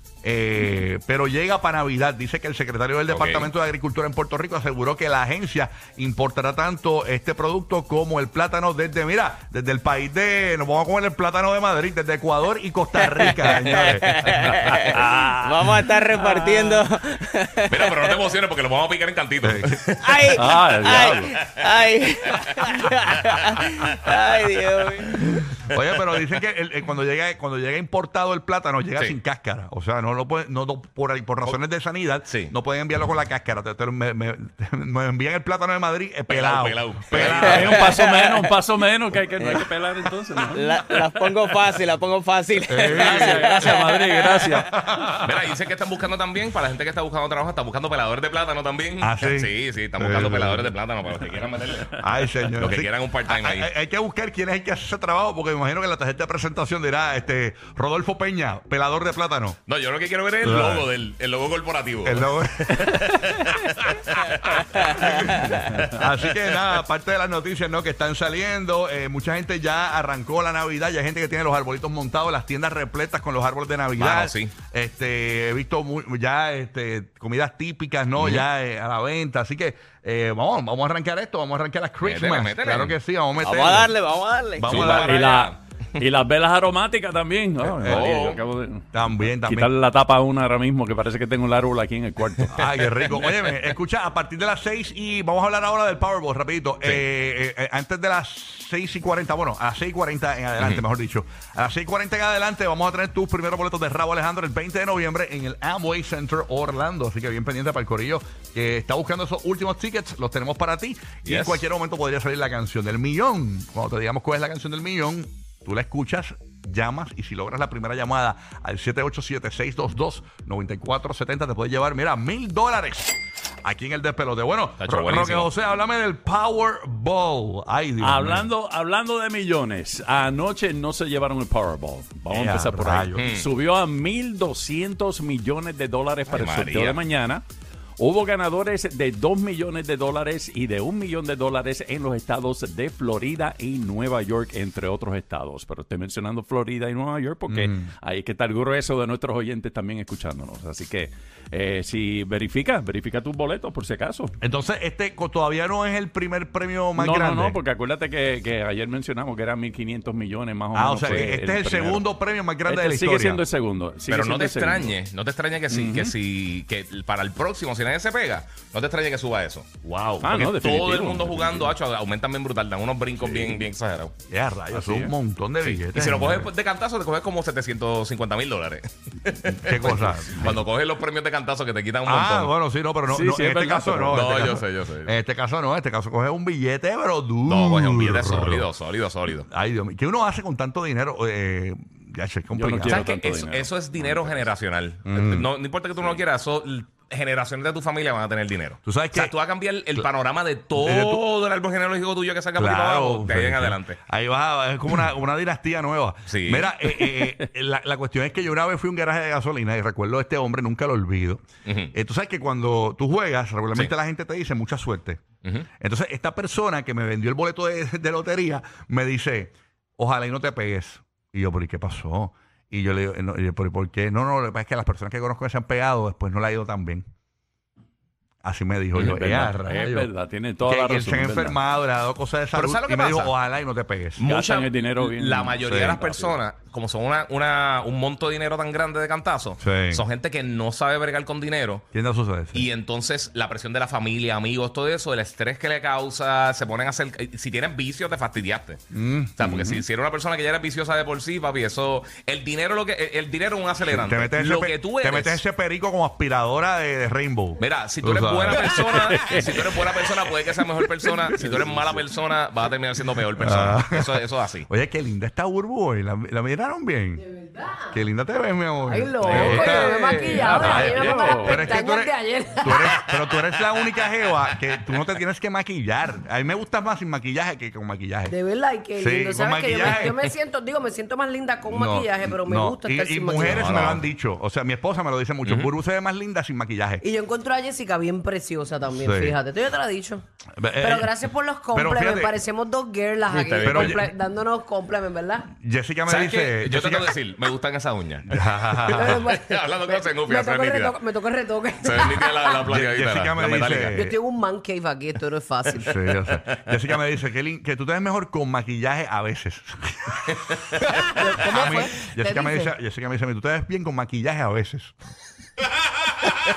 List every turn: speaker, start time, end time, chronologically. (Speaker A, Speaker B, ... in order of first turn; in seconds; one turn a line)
Speaker A: 0.2-14.4
Speaker B: 3.1-3.5
Speaker C: 13.4-18.3
Speaker D: 14.5-16.8
Speaker B: 17.7-20.3
Speaker A: 19.4-19.8
Speaker C: 20.0-25.2
Speaker D: 20.4-21.3
Speaker A: 25.7-37.8
Speaker B: 32.3-32.5
Speaker B: 36.3-37.9
Speaker D: 37.1-41.6
Speaker C: 37.4-38.5
Speaker C: 39.4-44.5
Speaker A: 42.7-43.9
Speaker D: 42.9-44.7
Speaker A: 44.6-45.4
Speaker B: 45.2-52.0
Speaker A: 49.0-50.7
Speaker A: 52.0-59.6
Speaker B: 52.6-53.7
Speaker B: 59.7-65.8
Speaker A: 60.4-60.9
Speaker A: 62.0-63.5
Speaker A: 64.6-84.0
Speaker B: 74.0-74.5
Speaker B: 78.2-78.5
Speaker B: 82.0-83.0
Speaker C: 83.4-85.2
Speaker A: 84.6-85.2
Speaker B: 84.6-85.6
Speaker D: 84.7-92.8
Speaker A: 87.6-88.2
Speaker B: 87.8-88.4
Speaker A: 88.9-89.7
Speaker A: 92.5-128.5
Speaker B: 111.2-111.6
Speaker B: 124.8-125.5
Speaker D: 128.0-137.4
Speaker A: 132.3-133.3
Speaker B: 133.2-133.5
Speaker B: 136.3-137.0
Speaker D: 138.0-154.3
Speaker A: 147.5-147.9
Speaker A: 154.4-157.6
Speaker D: 157.0-162.1
Speaker A: 160.7-163.4
Speaker D: 162.7-164.9
Speaker B: 164.1-169.7
Speaker D: 165.7-166.1
Speaker A: 169.8-170.5
Speaker D: 170.2-171.7
Speaker B: 170.4-174.1
Speaker A: 174.3-176.5
Speaker D: 174.7-175.1
Speaker B: 175.6-182.5
Speaker A: 179.5-180.6
Speaker A: 182.1-188.7
Speaker D: 183.1-184.2
Speaker B: 184.1-185.1
Speaker B: 187.5-189.5
Speaker A: 189.4-193.1
Speaker D: 192.5-194.3
Speaker B: 192.8-204.0
Speaker A: 195.1-195.5
Speaker A: 198.8-199.3
Speaker A: 200.8-201.2
Speaker A: 202.6-215.2
Speaker B: 206.3-207.0
Speaker B: 211.7-211.9
Speaker A: 215.8-227.1
Speaker A: 228.4-230.1
Speaker D: 229.0-231.6
Speaker A: 230.6-234.2
Speaker B: 232.5-233.3
Speaker B: 234.2-241.8
Speaker D: 234.2-236.3
Speaker A: 235.6-236.0
Speaker A: 239.6-240.0
Speaker A: 241.9-242.7
Speaker B: 242.5-248.8
Speaker A: 248.9-249.8
Speaker B: 249.4-255.4
Speaker A: 253.9-259.1
Speaker B: 257.6-264.7
Speaker D: 259.0-259.5
Speaker D: 261.2-262.0
Speaker A: 263.4-267.2
Speaker E: 267.2-268.0
Speaker A: 267.9-278.4
Speaker E: 268.8-273.0
Speaker B: 269.3-269.8
Speaker D: 269.4-271.6
Speaker E: 278.3-283.8
Speaker A: 279.0-280.2
Speaker A: 281.6-287.0
Speaker B: 283.4-284.0
Speaker B: 285.4-285.7
Speaker E: 287.0-290.2
Speaker A: 289.0-289.4
Speaker A: 290.6-292.4
Speaker E: 290.8-295.5
Speaker B: 293.3-294.0
Speaker A: 293.6-294.1
Speaker A: 295.5-297.2
Speaker B: 296.1-301.0
Speaker A: 298.3-299.2
Speaker E: 298.9-302.6
Speaker B: 301.8-304.1
Speaker A: 302.7-304.2
Speaker E: 303.9-306.0
Speaker A: 305.8-315.0
Speaker B: 306.4-306.8
Speaker E: 311.1-312.7